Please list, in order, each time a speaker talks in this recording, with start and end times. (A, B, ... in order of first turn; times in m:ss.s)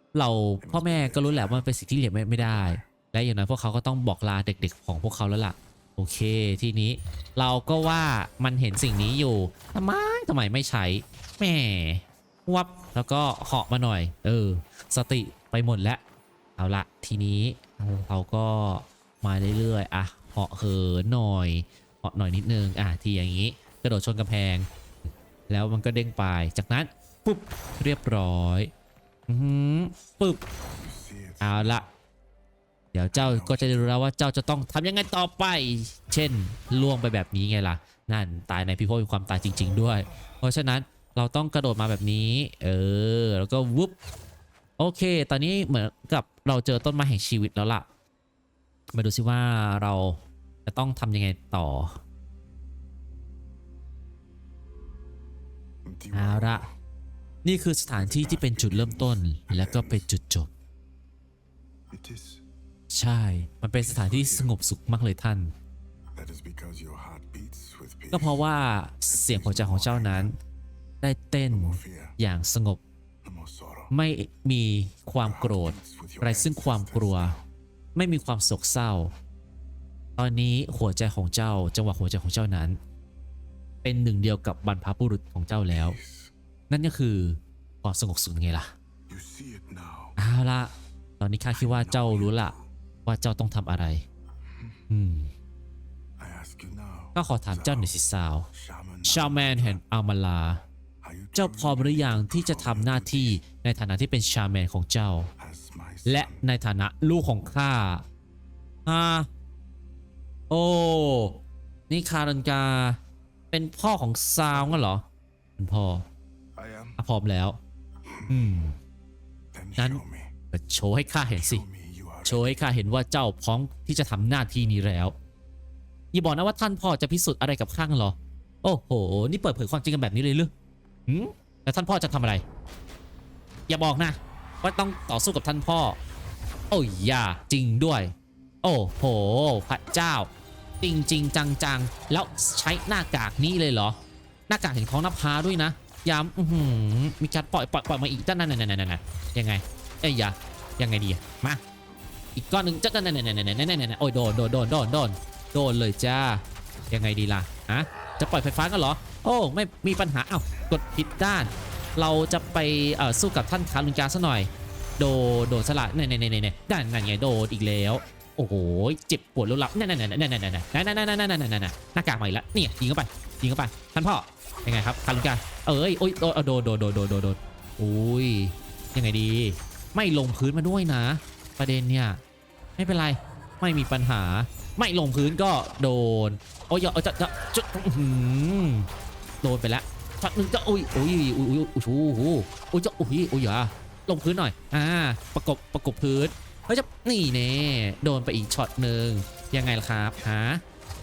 0:00.1-0:16.0 A
0:00.6-0:01.7 B
0:02.4-0:02.9 B
0:16.6-0:24.7 A
0:25.5-0:28.7 A
0:29.3-0:30.4 A
0:30.8-0:31.9 B
0:31.4-0:31.8 A
0:32.9-0:44.0 A
0:33.1-0:34.0 B
0:44.8-0:47.8 A
0:48.9-0:52.0 A
0:55.8-0:56.7 B
0:56.1-0:56.6 A
0:57.4-1:00.5 A
0:57.9-1:00.1 B
1:01.9-1:02.4 B
1:02.9-1:05.5 A
1:03.8-1:04.5 B
1:06.1-1:08.4 B
1:08.1-1:10.4 A
1:09.1-1:10.3 B
1:11.0-1:12.8 A
1:11.5-1:12.2 B
1:13.2-1:13.9 B
1:13.9-1:17.3 A
1:15.2-1:17.4 B
1:17.9-1:19.1 A
1:20.2-1:22.8 A
1:23.8-1:26.0 A
1:25.7-1:26.3 B
1:26.7-1:28.7 A
1:29.1-1:30.2 B
1:30.2-1:32.5 A
1:31.5-1:32.7 B
1:33.0-1:34.0 A
1:34.4-1:34.8 B
1:34.9-1:35.3 A
1:36.2-1:38.0 B
1:37.1-1:38.5 A
1:38.5-1:39.8 B
1:39.0-1:40.6 A
1:41.0-1:43.4 B
1:41.3-1:45.3 A
1:45.4-1:46.4 B
1:46.0-1:48.0 A
1:48.8-1:49.3 A
1:50.5-1:53.0 A
1:53.5-1:55.0 A
1:54.5-1:54.8 B
1:55.6-1:56.0 A
1:56.5-1:57.0 B
1:57.0-1:57.6 A
1:58.0-1:58.5 B
1:58.3-1:58.8 A
1:59.5-2:00.3 B
1:59.8-2:01.6 A
2:01.3-2:02.6 B
2:02.2-2:05.2 A
2:06.1-2:10.5 A
2:11.1-2:12.4 A
2:13.7-2:16.0 A
2:16.7-2:20.3 A
2:20.8-2:24.0 A
2:24.5-2:31.6 A
2:32.4-3:02.2 A
3:02.8-3:08.9 A
3:09.4-3:20.6 A